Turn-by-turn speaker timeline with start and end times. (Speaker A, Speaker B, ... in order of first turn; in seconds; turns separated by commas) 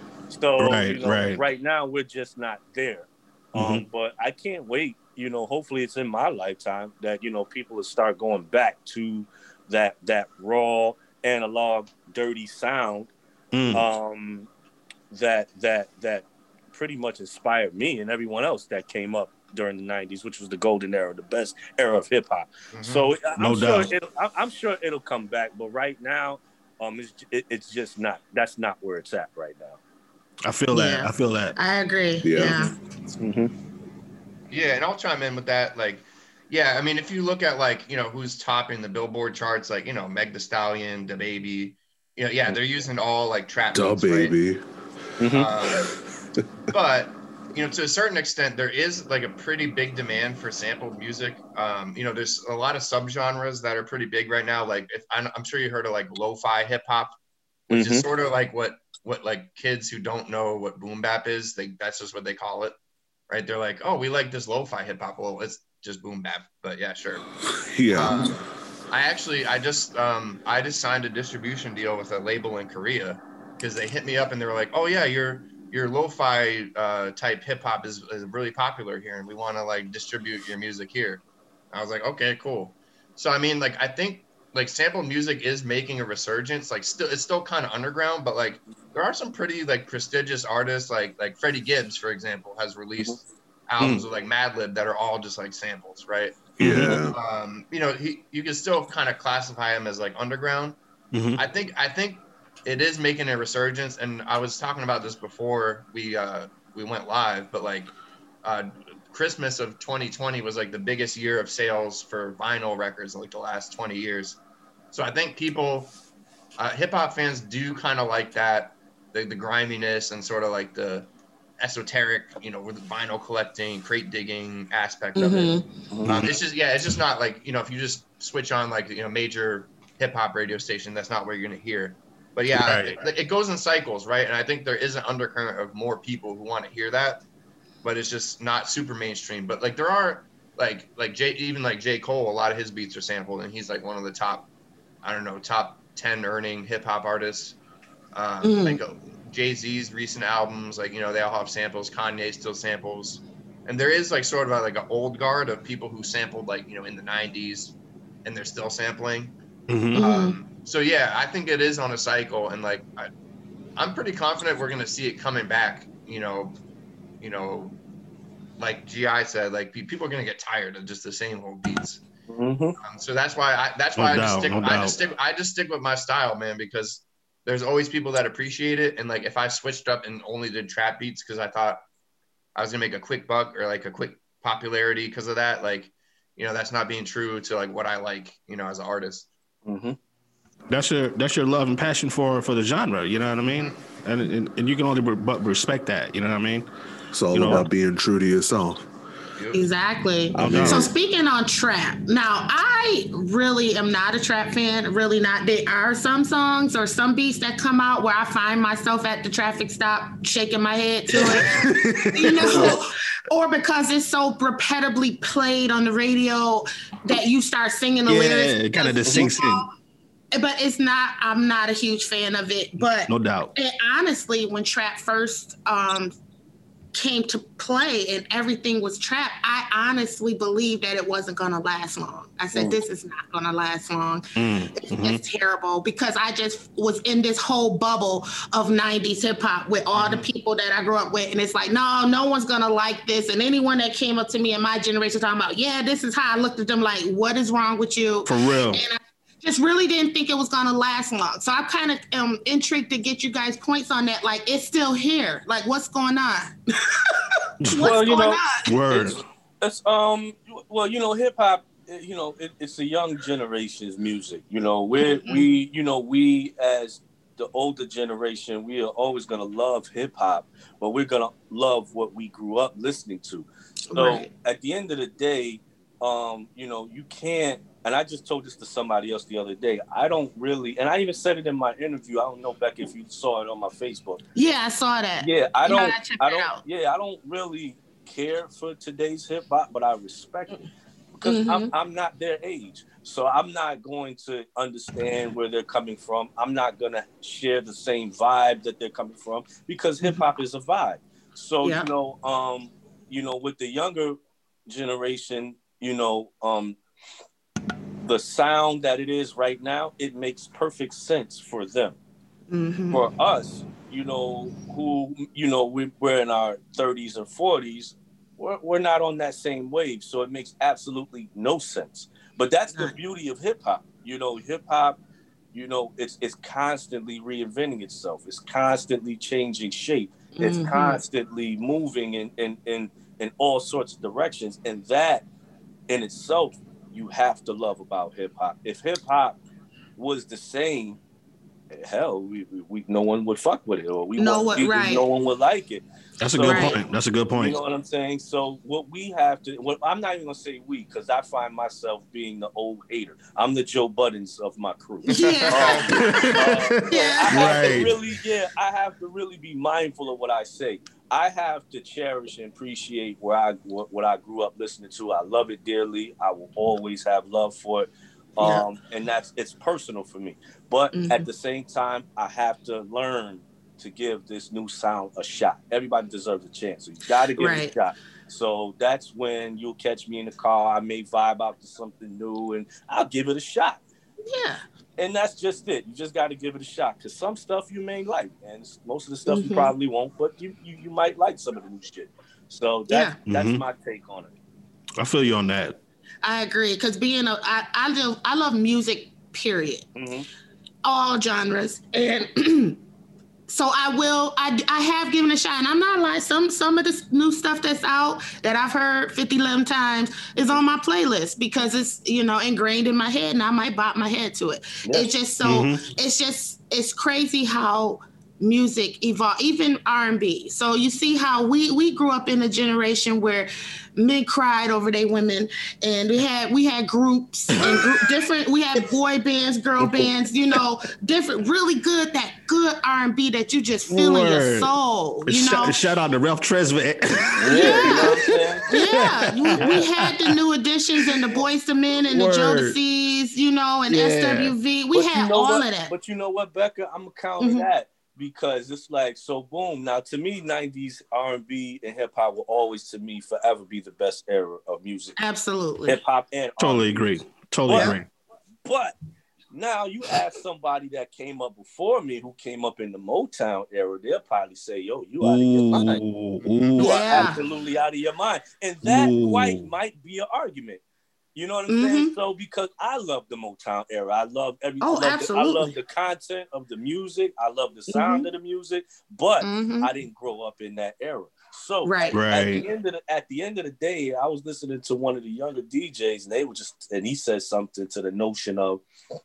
Speaker A: 0.3-13.1, Speaker B: 0.6-1.4, Speaker B: 3.5-3.9, Speaker B: 13.5-13.9, Speaker A: 13.7-14.5, Speaker A: 15.1-29.8, Speaker C: 22.7-23.1, Speaker B: 23.4-23.9, Speaker B: 30.4-31.6, Speaker D: 30.7-32.7, Speaker E: 32.2-32.7, Speaker A: 33.2-33.5, Speaker C: 34.5-44.4, Speaker E: 43.7-44.6, Speaker A: 45.2-45.5, Speaker C: 45.3-45.9, Speaker C: 46.7-57.2, Speaker A: 57.7-58.1, Speaker C: 57.7-62.7, Speaker C: 63.3-67.3, Speaker E: 67.7-68.3, Speaker C: 67.9-68.4, Speaker C: 68.9-100.8, Speaker B: 96.6-97.0, Speaker E: 96.6-97.1, Speaker B: 101.1-101.4, Speaker C: 101.4-107.9, Speaker C: 108.4-114.4, Speaker C: 114.9-115.9, Speaker C: 116.6-137.2, Speaker D: 125.2-125.7, Speaker A: 125.9-126.2, Speaker B: 126.1-126.3, Speaker B: 132.6-133.0, Speaker C: 137.8-144.5, Speaker C: 145.0-147.6, Speaker C: 148.1-159.3, Speaker D: 148.4-148.8, Speaker B: 159.7-160.1, Speaker D: 159.9-160.4, Speaker C: 159.9-163.1, Speaker C: 163.8-166.6, Speaker C: 167.2-167.8, Speaker C: 168.6-172.0, Speaker A: 172.3-172.8, Speaker C: 172.8-181.8, Speaker B: 173.9-175.0, Speaker C: 182.6-189.3, Speaker A: 189.6-190.0, Speaker B: 190.7-196.7, Speaker C: 193.5-193.8, Speaker E: 197.1-198.9, Speaker B: 197.3-197.7, Speaker C: 199.4-199.7, Speaker D: 199.5-211.6, Speaker E: 200.3-200.9, Speaker B: 200.4-200.9, Speaker B: 211.1-212.8, Speaker D: 212.1-219.7, Speaker B: 218.1-219.7, Speaker D: 220.3-226.1, Speaker B: 223.1-223.5, Speaker D: 226.9-258.6, Speaker B: 234.4-235.2, Speaker B: 248.2-248.8, Speaker B: 257.6-258.0, Speaker A: 257.7-284.2, Speaker B: 258.6-259.2, Speaker D: 265.0-265.5, Speaker D: 273.9-274.3, Speaker D: 284.4-286.6, Speaker A: 285.2-290.6, Speaker A: 291.1-306.8, Speaker D: 291.2-291.7, Speaker D: 301.6-301.9, Speaker A: 308.0-312.0, Speaker D: 312.5-313.0, Speaker A: 312.9-325.0, Speaker A: 325.5-335.2, Speaker D: 330.4-331.0, Speaker A: 335.9-339.4, Speaker A: 340.0-341.0, Speaker A: 341.7-346.8, Speaker D: 344.2-345.1, Speaker B: 346.2-347.6, Speaker D: 346.4-346.8, Speaker A: 347.4-383.8, Speaker D: 355.1-355.8, Speaker C: 355.1-356.4, Speaker B: 355.9-358.0, Speaker D: 356.9-357.7, Speaker D: 368.4-368.6, Speaker D: 370.9-371.2, Speaker D: 377.4-377.7, Speaker D: 384.3-384.6, Speaker A: 385.0-394.3, Speaker D: 389.3-389.7, Speaker D: 392.9-393.2, Speaker B: 393.3-393.6, Speaker B: 395.0-395.8, Speaker D: 396.2-399.9, Speaker A: 399.9-400.3, Speaker D: 400.9-402.8, Speaker D: 403.5-435.8, Speaker A: 414.8-415.1, Speaker B: 415.4-415.9, Speaker B: 427.6-427.9, Speaker B: 429.8-430.1, Speaker B: 433.9-434.7, Speaker B: 435.2-438.1, Speaker A: 437.4-438.7, Speaker D: 437.5-445.9, Speaker B: 438.7-440.4, Speaker A: 439.6-439.8, Speaker B: 442.1-442.8, Speaker B: 443.9-444.6, Speaker A: 444.9-455.2, Speaker D: 447.4-447.7, Speaker D: 455.2-456.0, Speaker A: 455.9-458.0, Speaker B: 456.6-458.1, Speaker D: 457.7-458.0, Speaker A: 458.6-458.9, Speaker A: 459.5-466.0, Speaker B: 465.2-467.3, Speaker C: 466.4-466.9, Speaker A: 466.8-470.8, Speaker D: 466.8-467.4, Speaker B: 468.8-469.7, Speaker A: 471.4-488.8, Speaker D: 471.7-472.1, Speaker D: 474.8-475.7, Speaker D: 477.9-478.2, Speaker D: 479.4-479.9, Speaker D: 481.9-482.2, Speaker B: 482.1-482.6